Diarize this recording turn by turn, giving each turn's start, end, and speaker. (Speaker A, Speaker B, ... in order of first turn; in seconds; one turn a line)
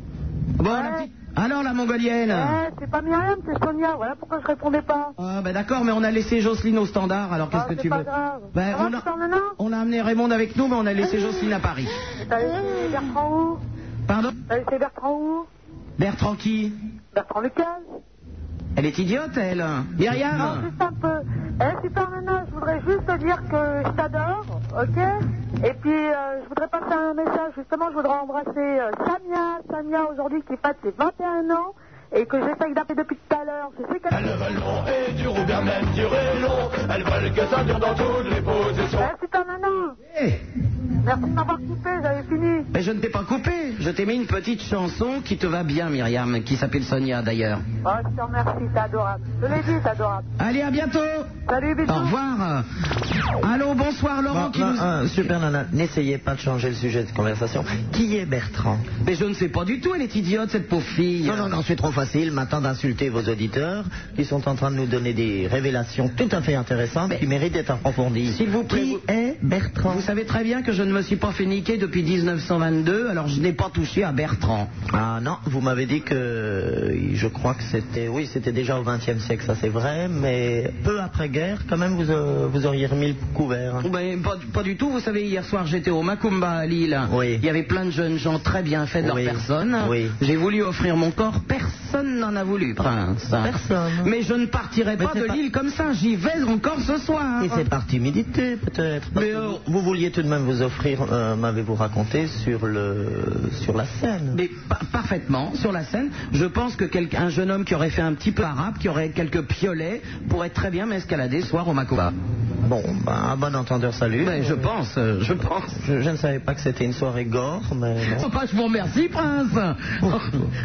Speaker A: 0.6-2.6
Speaker B: 0.7-1.1
Speaker B: 2.3-5.1
Speaker A: 5.2-9.1
Speaker B: 7.5-9.5
Speaker A: 9.6-11.9
Speaker B: 12.2-13.6
Speaker A: 14.1-14.3
Speaker B: 14.5-15.5
Speaker A: 16.0-16.8
Speaker B: 17.1-17.8
Speaker A: 18.8-20.7
Speaker B: 20.3-25.1
Speaker B: 25.6-34.7
Speaker C: 34.7-38.8
Speaker B: 38.9-40.0
Speaker B: 41.0-42.7
Speaker A: 42.7-47.6
Speaker B: 47.8-50.2
Speaker A: 50.4-51.3
Speaker B: 51.5-52.2
Speaker A: 51.9-52.6
Speaker A: 53.4-54.9
Speaker D: 54.3-58.9
Speaker A: 59.0-61.5
Speaker D: 61.2-70.1
Speaker A: 68.2-69.0
Speaker A: 69.9-74.7
Speaker D: 74.9-83.9
Speaker A: 83.8-97.6
Speaker D: 87.1-87.4
Speaker D: 89.0-90.1
Speaker D: 93.4-94.1
Speaker D: 95.0-95.4
Speaker D: 97.4-104.4
Speaker A: 99.1-99.6
Speaker A: 104.3-112.1
Speaker D: 112.6-114.7
Speaker A: 114.2-115.7
Speaker D: 115.7-118.3
Speaker A: 118.1-120.4